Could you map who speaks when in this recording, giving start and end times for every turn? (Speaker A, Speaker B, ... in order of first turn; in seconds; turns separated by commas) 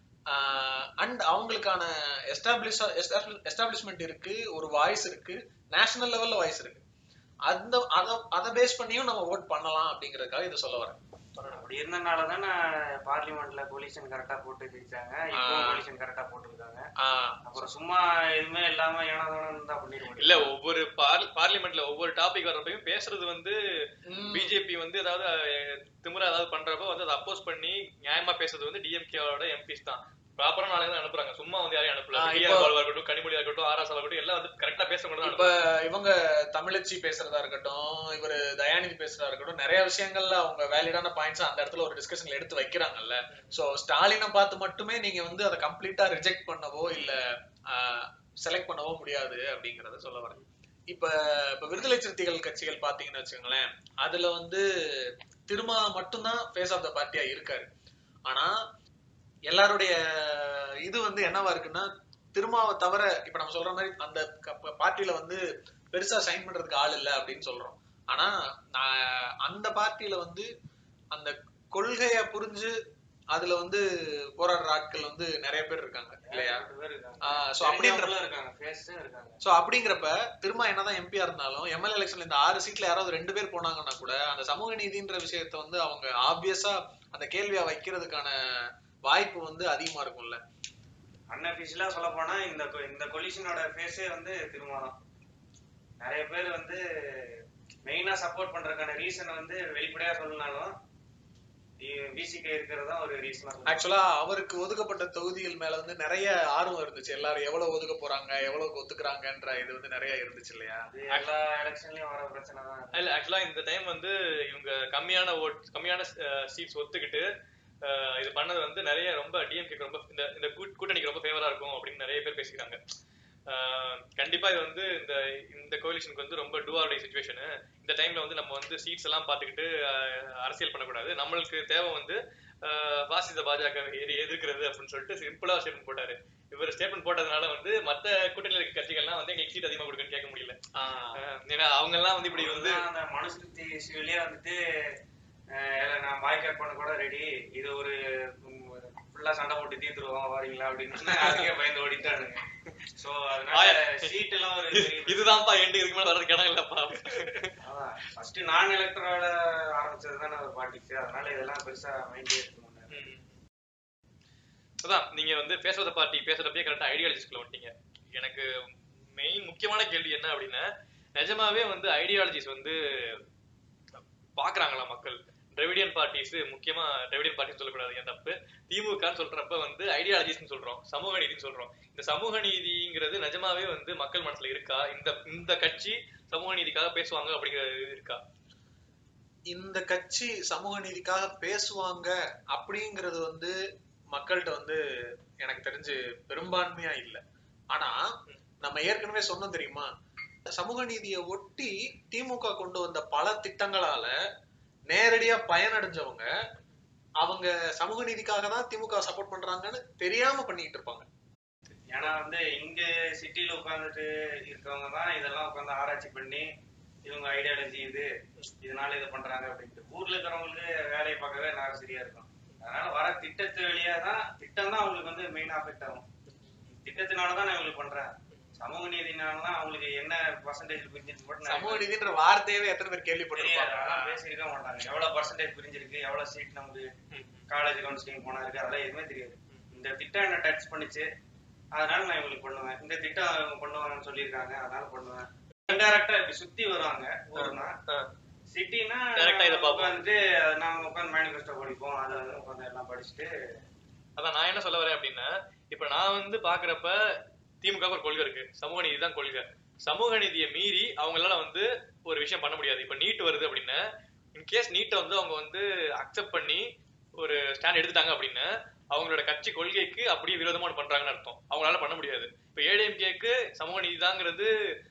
Speaker A: 0.3-6.8, Speaker A: 7.5-11.0, Speaker B: 11.4-11.6, Speaker C: 11.5-16.9, Speaker A: 15.3-15.8, Speaker A: 17.0-17.4, Speaker C: 17.4-20.5, Speaker B: 20.2-23.6, Speaker A: 24.1-24.6, Speaker B: 24.3-35.5, Speaker A: 32.1-32.7, Speaker A: 35.2-50.4, Speaker A: 50.9-57.7, Speaker A: 58.3-58.6, Speaker A: 59.5-70.5, Speaker A: 71.1-72.8, Speaker A: 73.3-76.6, Speaker C: 76.2-79.4, Speaker A: 77.2-78.1, Speaker A: 79.4-90.4, Speaker C: 91.3-94.9, Speaker C: 96.0-100.7, Speaker C: 101.8-103.8, Speaker A: 103.7-110.9, Speaker C: 110.9-113.0, Speaker B: 112.9-117.3, Speaker B: 117.8-122.8, Speaker B: 123.5-140.6, Speaker A: 140.7-141.2, Speaker B: 141.1-142.8, Speaker C: 142.3-144.9, Speaker C: 145.5-152.4, Speaker C: 152.9-155.4, Speaker B: 153.5-157.5, Speaker C: 157.6-163.0, Speaker B: 162.9-163.3, Speaker B: 164.8-173.2, Speaker B: 174.0-188.2, Speaker A: 189.5-193.6, Speaker A: 194.1-194.8, Speaker A: 195.4-199.9, Speaker A: 200.5-204.1, Speaker A: 204.9-206.3, Speaker A: 207.2-211.1, Speaker C: 211.9-216.5, Speaker C: 217.0-218.1, Speaker C: 218.6-226.1, Speaker C: 226.7-231.8, Speaker A: 231.4-234.2, Speaker C: 233.3-236.9, Speaker B: 237.1-237.4, Speaker C: 237.5-241.1, Speaker C: 241.7-247.8, Speaker B: 247.4-248.1, Speaker C: 248.5-253.3, Speaker B: 249.2-250.0, Speaker B: 254.2-263.8, Speaker B: 264.3-266.6, Speaker B: 267.2-274.5